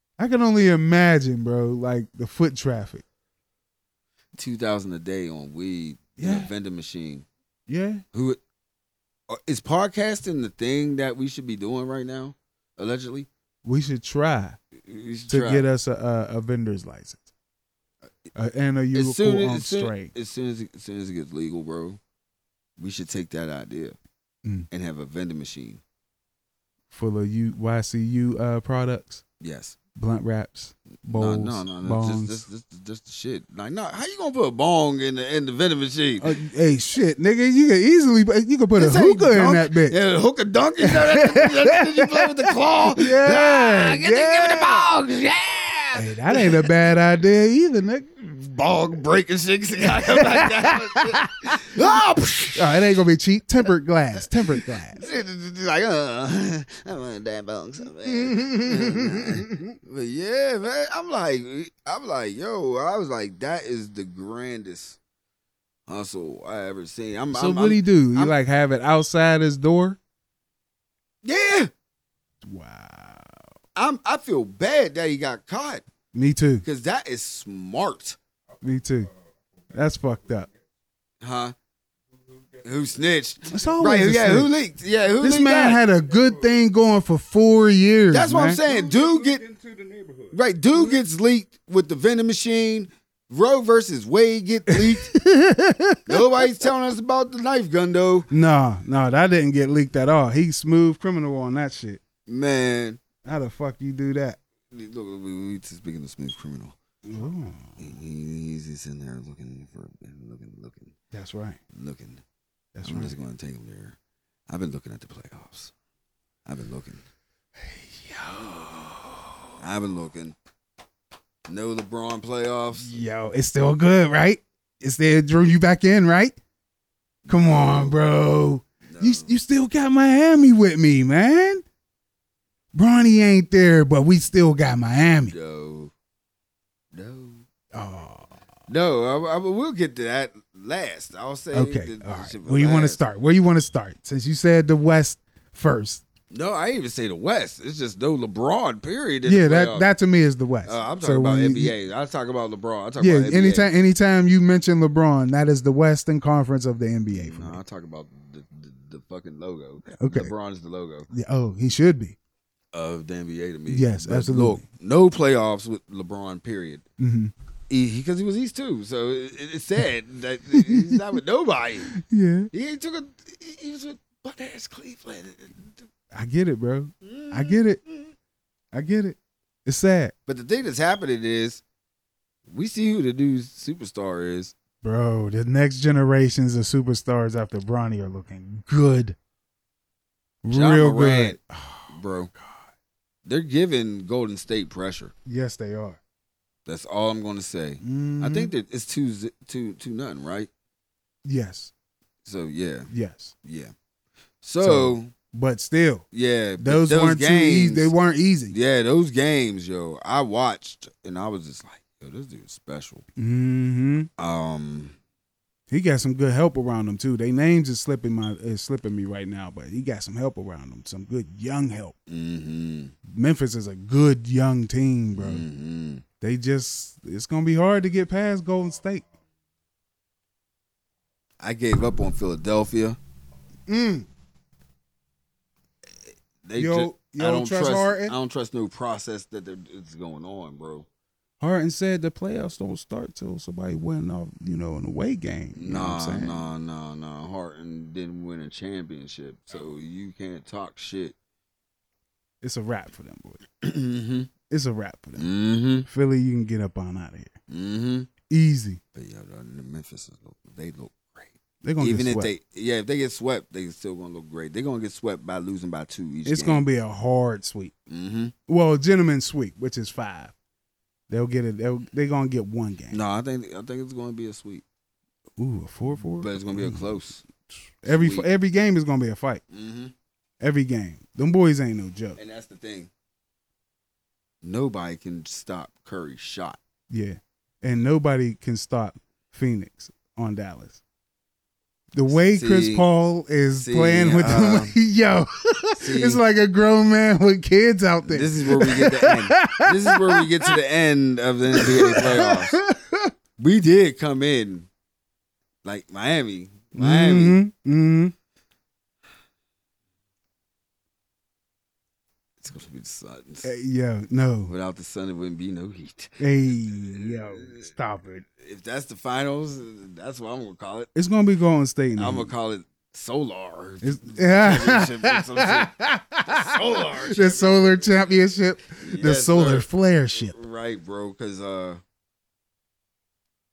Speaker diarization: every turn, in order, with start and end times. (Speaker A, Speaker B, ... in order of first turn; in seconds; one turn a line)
Speaker A: 0.2-3.0
Speaker B: 4.4-7.2
Speaker A: 6.2-6.5
Speaker A: 7.7-8.0
Speaker B: 8.1-8.4
Speaker B: 9.3-13.3
Speaker A: 13.6-14.6
Speaker B: 14.8-15.6
Speaker A: 15.3-17.3
Speaker A: 18.3-20.1
Speaker B: 18.9-22.0
Speaker B: 22.8-24.0
Speaker B: 24.7-25.8
Speaker A: 26.9-29.2
Speaker B: 29.4-29.8
Speaker A: 29.9-32.4
Speaker B: 31.1-36.3
Speaker A: 36.2-40.0
Speaker B: 38.8-46.7
Speaker A: 40.8-44.9
Speaker A: 45.9-48.1
Speaker B: 48.2-52.8
Speaker A: 49.9-51.6
Speaker A: 52.5-55.0
Speaker B: 54.5-65.0
Speaker A: 58.0-59.7
Speaker B: 65.9-68.3
Speaker A: 67.3-70.0
Speaker B: 71.2-71.7
Speaker A: 72.4-73.3
Speaker B: 73.7-75.8
Speaker A: 76.1-76.6
Speaker B: 76.6-78.2
Speaker C: 78.5-80.6
Speaker A: 78.6-79.1
Speaker A: 79.7-80.5
Speaker B: 81.2-81.5
Speaker C: 82.1-83.8
Speaker B: 82.6-85.8
Speaker A: 83.5-84.5
Speaker A: 85.2-88.6
Speaker C: 85.9-86.5
Speaker B: 88.1-89.4
Speaker C: 88.6-91.0
Speaker B: 90.3-95.1
Speaker A: 94.7-96.2
Speaker B: 96.0-98.3
Speaker A: 98.3-102.0
Speaker B: 102.3-103.0
Speaker A: 103.2-104.4
Speaker B: 104.7-106.8
Speaker A: 107.0-107.8
Speaker B: 107.8-111.0
Speaker A: 111.1-111.6
Speaker B: 111.7-112.2
Speaker A: 112.7-113.1
Speaker B: 112.8-114.0
Speaker B: 114.5-115.7
Speaker B: 116.5-117.0
Speaker A: 117.6-119.4
Speaker B: 119.6-120.3
Speaker B: 121.5-122.9
Speaker A: 122.8-126.3
Speaker B: 127.2-128.0
Speaker A: 127.3-131.6
Speaker B: 128.8-129.3
Speaker A: 132.7-135.3
Speaker B: 135.3-135.9
Speaker B: 136.9-137.4
Speaker A: 137.7-138.3
Speaker B: 138.7-143.0
Speaker A: 141.5-146.0
Speaker B: 146.3-149.9
Speaker A: 149.2-151.7
Speaker B: 150.6-153.7
Speaker A: 153.0-157.6
Speaker B: 157.1-161.1
Speaker A: 160.0-160.3
Speaker A: 161.1-162.2
Speaker B: 162.7-166.8
Speaker A: 163.7-164.6
Speaker A: 167.0-167.3
Speaker B: 167.7-171.9
Speaker A: 170.5-171.0
Speaker A: 171.9-172.5
Speaker B: 172.5-175.9
Speaker A: 176.1-177.8
Speaker B: 177.0-178.1
Speaker A: 178.7-180.1
Speaker B: 180.3-181.6
Speaker B: 182.5-184.5
Speaker A: 184.8-189.2
Speaker A: 190.4-191.9
Speaker B: 190.5-191.4
Speaker B: 191.9-192.3
Speaker B: 193.2-195.1
Speaker A: 195.2-196.0
Speaker B: 196.7-200.5
Speaker A: 197.8-198.5
Speaker A: 201.2-201.7
Speaker B: 202.2-202.9
Speaker A: 202.9-203.3
Speaker B: 203.4-203.7
Speaker B: 204.4-205.1
Speaker A: 204.6-206.1
Speaker B: 206.1-207.9
Speaker A: 206.6-208.5
Speaker B: 208.5-213.0
Speaker A: 213.2-214.1
Speaker B: 214.2-214.9
Speaker A: 215.7-221.9
Speaker B: 222.1-222.9
Speaker A: 223.1-225.4
Speaker B: 225.1-226.0
Speaker A: 226.2-229.0
Speaker B: 231.4-233.0
Speaker A: 233.7-234.1
Speaker B: 236.4-240.8
Speaker A: 236.6-238.1
Speaker A: 241.4-246.4
Speaker B: 245.5-251.2
Speaker A: 252.4-253.4
Speaker B: 253.6-254.3
Speaker A: 254.5-255.3
Speaker B: 255.2-255.9
Speaker A: 255.9-257.3
Speaker B: 257.5-258.1
Speaker A: 258.3-258.8
Speaker B: 258.9-266.6
Speaker A: 261.6-262.3
Speaker A: 266.2-267.7
Speaker B: 267.9-268.3
Speaker A: 268.5-270.3
Speaker A: 271.1-273.0
Speaker B: 272.9-274.6
Speaker A: 275.4-276.9
Speaker B: 276.2-277.2
Speaker A: 277.8-279.4
Speaker B: 277.8-278.3
Speaker B: 279.5-279.9
Speaker A: 280.4-282.2
Speaker B: 282.1-282.9
Speaker B: 284.4-286.6
Speaker A: 286.9-290.8
Speaker A: 291.9-300.5
Speaker B: 292.1-292.9
Speaker B: 293.6-294.8
Speaker B: 295.8-296.2
Speaker B: 298.0-302.6
Speaker A: 301.6-303.1
Speaker B: 303.4-304.7
Speaker B: 305.6-307.4
Speaker A: 306.7-308.1
Speaker B: 312.4-313.5
Speaker A: 313.4-314.5
Speaker B: 314.5-317.7
Speaker A: 316.2-318.2
Speaker B: 318.4-320.9
Speaker A: 320.9-322.3
Speaker B: 321.9-327.9
Speaker A: 323.8-330.4
Speaker B: 328.8-331.8